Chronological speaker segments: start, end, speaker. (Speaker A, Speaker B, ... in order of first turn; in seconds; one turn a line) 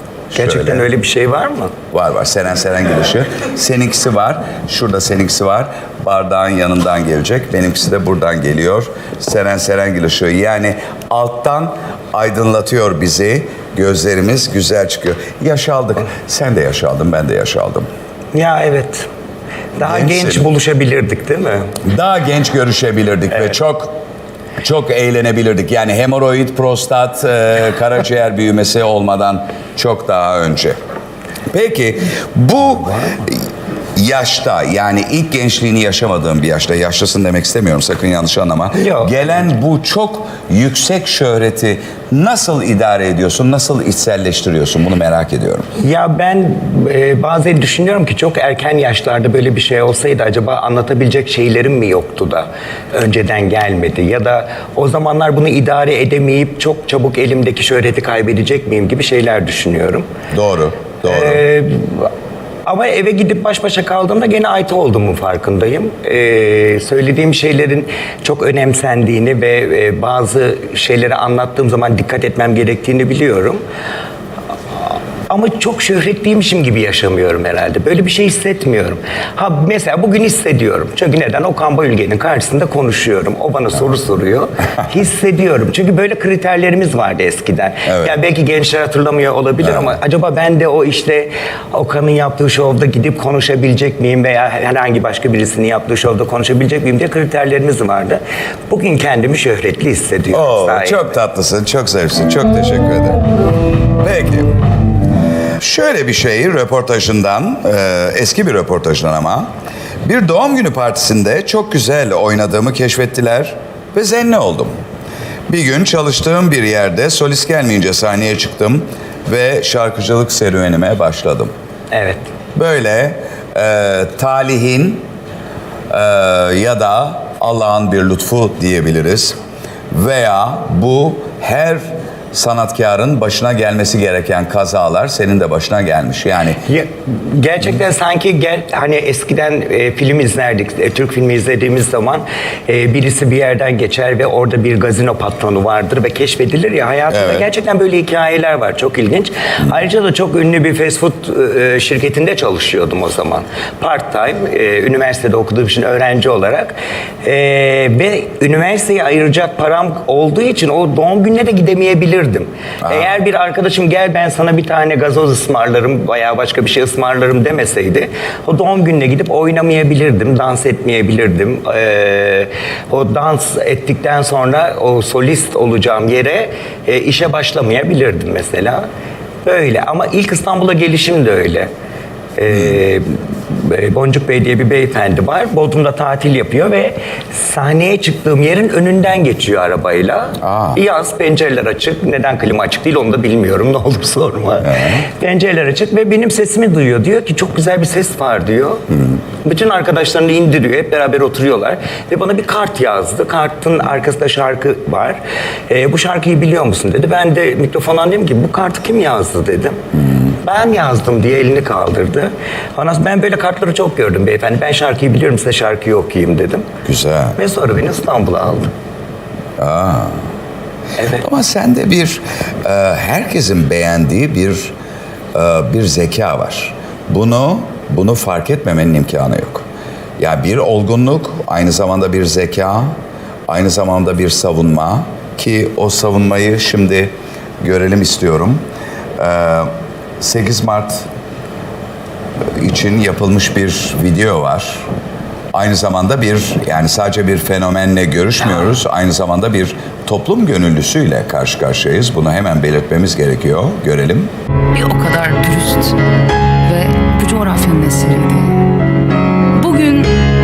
Speaker A: 0.3-0.9
Speaker B: 0.3-1.7
Speaker A: 1.9-17.9
Speaker B: 18.3-19.1
Speaker B: 19.8-21.7
Speaker A: 19.8-20.5
Speaker A: 21.8-23.9
Speaker A: 24.6-30.8
Speaker A: 31.5-33.4
Speaker A: 34.0-45.7
Speaker B: 38.8-39.4
Speaker B: 45.8-60.0
Speaker A: 60.3-61.4
Speaker B: 61.0-62.1
Speaker B: 62.6-73.6
Speaker B: 75.3-101.2
Speaker A: 87.8-88.1
Speaker A: 100.3-103.2
Speaker A: 104.0-104.5
Speaker A: 105.6-109.5
Speaker A: 110.0-114.7
Speaker A: 115.5-121.5
Speaker B: 121.9-122.3
Speaker A: 122.5-125.0
Speaker A: 125.9-129.3
Speaker A: 129.9-136.6
Speaker B: 136.6-178.8
Speaker A: 147.1-147.4
Speaker A: 162.8-163.1
Speaker B: 179.4-181.7
Speaker B: 182.4-198.8
Speaker A: 190.4-190.8
Speaker A: 194.6-195.0
Speaker A: 198.9-199.2
Speaker B: 199.4-209.8
Speaker A: 209.9-210.3
Speaker B: 210.4-216.6
Speaker A: 216.8-217.4
Speaker B: 217.4-218.7
Speaker A: 219.6-220.2
Speaker A: 221.1-224.7
Speaker A: 225.3-229.6
Speaker A: 230.2-232.9
Speaker A: 233.5-238.6
Speaker A: 239.2-241.1
Speaker A: 242.6-244.8
Speaker A: 245.5-254.3
Speaker C: 254.7-256.0
Speaker C: 256.6-258.6
Speaker C: 259.5-260.1